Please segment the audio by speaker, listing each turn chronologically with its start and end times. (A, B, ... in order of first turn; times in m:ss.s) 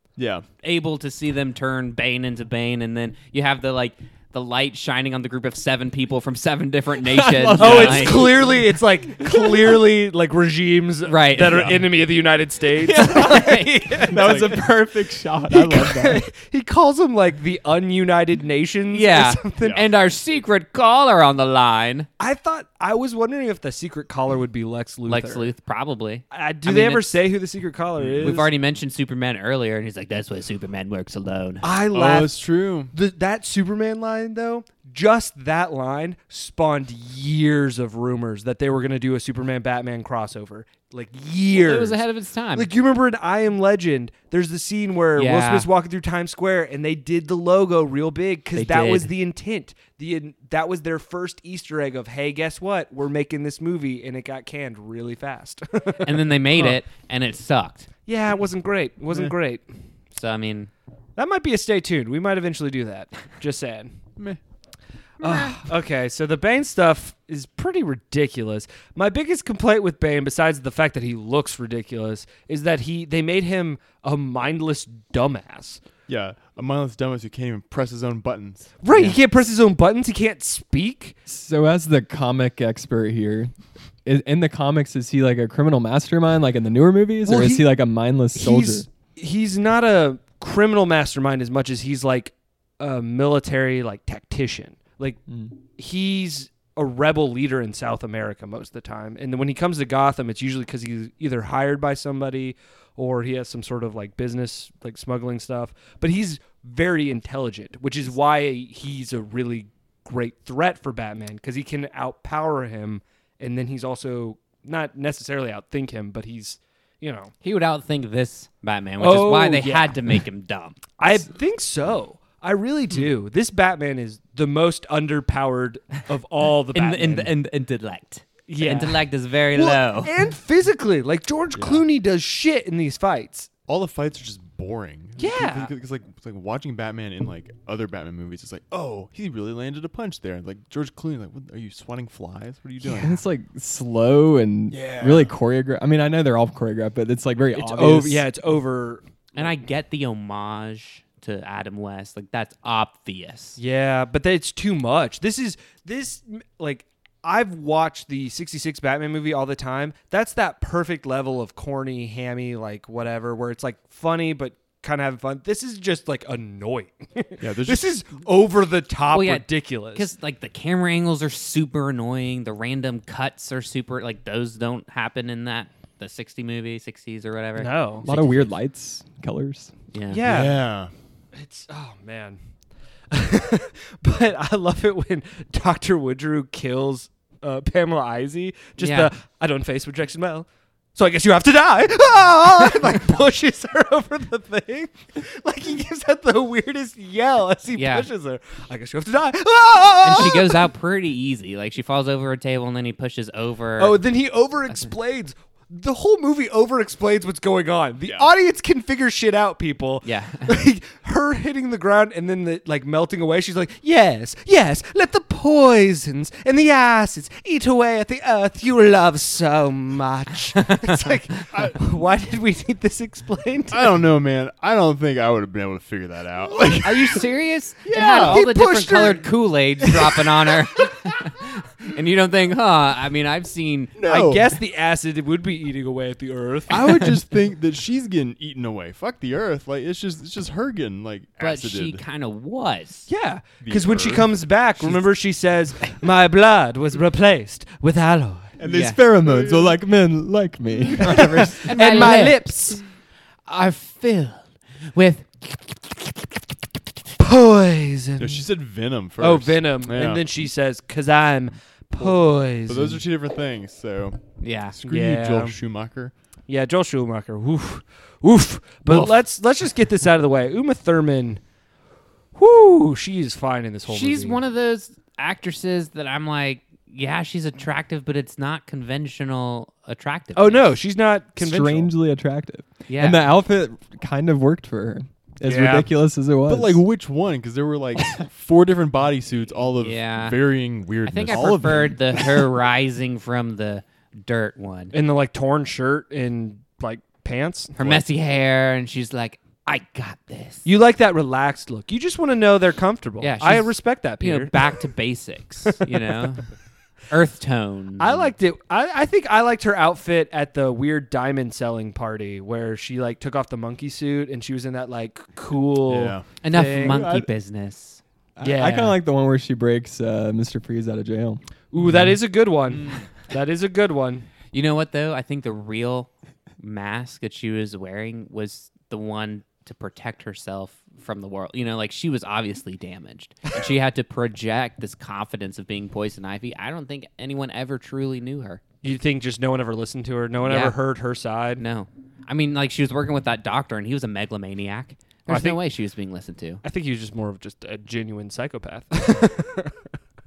0:00.2-0:00.4 A
0:00.6-0:08.4 B
0:07.1-0:08.6 C
0:07.6-0:14.6 D
0:09.2-0:09.5 C
0:11.0-0:11.8 B
0:11.4-0:11.8 A
0:12.8-0:14.0 B
0:14.0-0:16.2 C
0:14.2-0:14.6 A
0:15.5-0:19.8 D
0:18.9-0:22.1 B
0:19.6-0:19.8 A
0:22.2-0:25.5 D
0:25.1-0:27.2 B
0:26.3-0:28.5 D
0:28.0-0:28.4 A
0:28.2-0:31.6 B
0:31.6-0:32.3 D
0:31.9-0:32.9 A
0:32.9-0:42.0 D
0:41.5-0:42.7 B
0:42.5-0:56.8 D
0:45.2-0:45.7 B
0:48.5-0:49.1 B
0:56.0-0:57.9 B
0:58.1-0:59.6 D
1:00.1-1:00.7 B
1:01.2-1:03.9 D
1:05.2-1:15.8 D
1:05.2-1:05.6 B
1:16.1-1:18.7 A
1:18.8-1:21.2 D
1:18.9-1:19.2 B
1:21.3-1:23.5 C
1:24.0-1:28.8 C
1:27.2-1:27.7 D
1:28.3-1:35.2 D
1:35.8-1:57.3 D
1:57.4-2:00.8 B
1:59.0-2:00.0 D
2:01.0-2:07.3 D
2:06.7-2:10.1 B
2:08.5-2:09.0 D
2:09.5-2:13.5 D
2:11.5-2:11.8 A
2:13.7-2:23.2 A
2:15.2-2:15.7 D
2:22.8-2:28.2 C
2:24.7-2:25.3 A
2:27.5-2:29.4 D
2:29.3-2:33.6 B
2:33.6-2:50.1 D
2:47.4-2:48.0 A
2:49.1-2:58.5 B
2:57.6-2:58.0 D
2:58.0-2:59.7 C
2:59.9-3:00.2 B
3:00.1-3:00.6 D
3:00.2-3:00.9 A
3:01.3-3:02.4 D
3:03.1-3:20.6 D
3:08.8-3:09.1 B
3:17.8-3:18.1 B
3:20.0-3:24.0 B
3:23.8-3:43.9 D
3:30.0-3:30.5 B
3:41.5-3:41.8 A
3:43.7-3:47.2 A
3:46.8-3:53.9 B
3:47.8-3:48.4 A
3:48.0-3:49.3 D
3:49.8-3:50.3 D
3:53.9-3:54.5 A
3:54.1-3:56.8 D
3:56.7-4:02.0 A
3:56.8-3:57.1 B
4:01.4-4:03.1 B
4:03.1-4:08.5 D
4:03.6-4:05.0 A
4:08.6-4:09.7 A
4:08.6-4:12.1 C
4:08.7-4:09.0 B
4:11.0-4:12.8 D
4:11.6-4:12.8 B
4:13.4-4:16.0 B
4:17.2-4:18.4 D
4:18.2-4:20.2 A
4:19.2-4:23.0 D
4:22.0-4:24.2 A
4:24.4-4:24.8 B
4:24.7-4:26.1 A
4:24.8-4:25.5 D
4:26.5-4:31.4 D
4:32.3-4:34.4 D
4:33.9-4:40.7 B
4:40.3-4:41.9 D
4:41.4-4:46.8 C
4:42.9-4:43.2 B
4:45.4-4:45.9 D
4:46.5-4:52.5 A
4:49.8-4:50.4 B
4:51.0-4:54.9 B
4:54.9-4:57.7 D
4:57.8-5:00.6 B
4:57.8-4:58.0 A
5:00.6-5:04.8 D
5:03.2-5:06.4 B
5:07.1-5:08.3 B
5:08.0-5:17.2 D
5:15.9-5:16.2 A
5:16.4-5:18.0 B
5:18.4-5:21.4 C
5:18.4-5:19.0 D
5:21.7-5:24.3 D
5:24.5-5:38.6 B
5:38.8-5:41.6 D
5:40.4-5:40.8 B
5:41.6-5:46.6 B
5:45.3-5:45.6 D
5:46.6-5:49.7 D